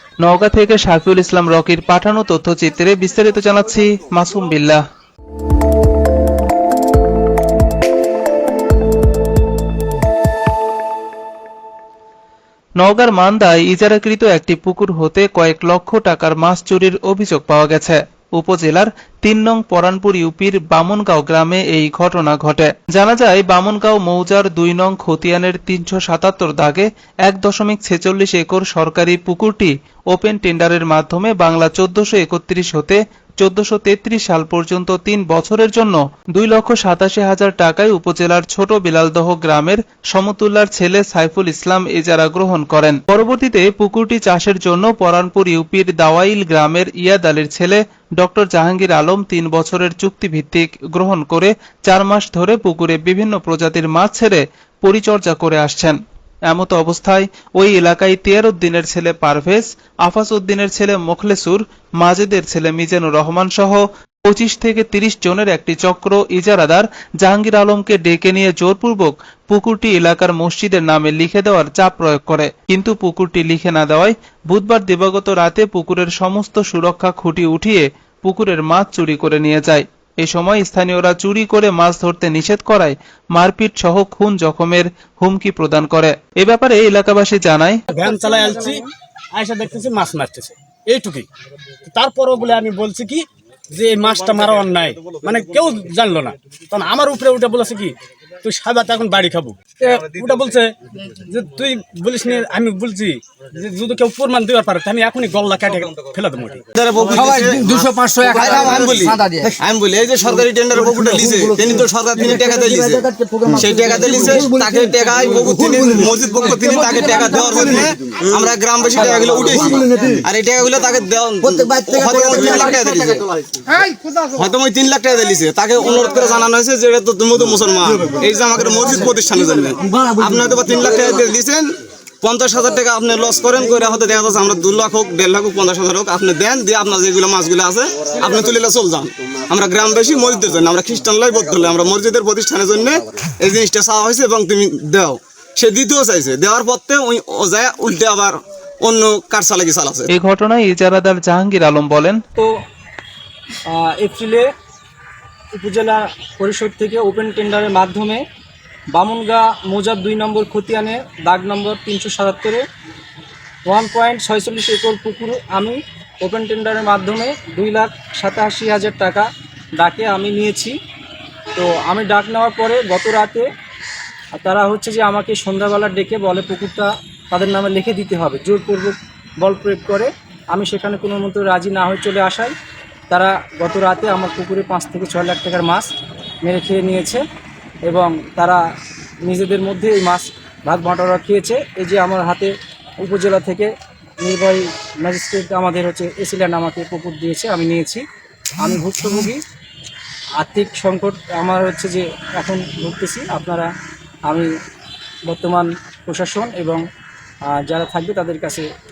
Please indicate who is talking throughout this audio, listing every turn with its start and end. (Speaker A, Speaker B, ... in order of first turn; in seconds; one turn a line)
Speaker A: 0.2-4.8
Speaker A: 12.8-56.0
Speaker A: 56.5-87.8
Speaker B: 87.9-91.3
Speaker B: 91.8-106.7
Speaker C: 106.8-107.7
Speaker D: 107.1-109.6
Speaker C: 108.2-123.3
Speaker D: 110.8-117.9
Speaker D: 119.1-120.2
Speaker D: 121.4-123.0
Speaker C: 124.2-150.1
Speaker D: 129.9-131.2
Speaker A: 150.1-152.2
Speaker E: 153.8-154.5
Speaker E: 155.6-158.2
Speaker E: 158.9-162.6
Speaker E: 163.7-169.3
Speaker E: 169.8-170.8
Speaker E: 171.6-173.5
Speaker E: 174.3-182.5
Speaker E: 183.1-185.9
Speaker E: 186.4-187.2
Speaker E: 187.9-188.6
Speaker E: 189.2-193.7
Speaker E: 194.2-198.0
Speaker E: 198.6-199.4
Speaker E: 200.4-203.7
Speaker E: 205.3-206.8
Speaker E: 207.5-208.7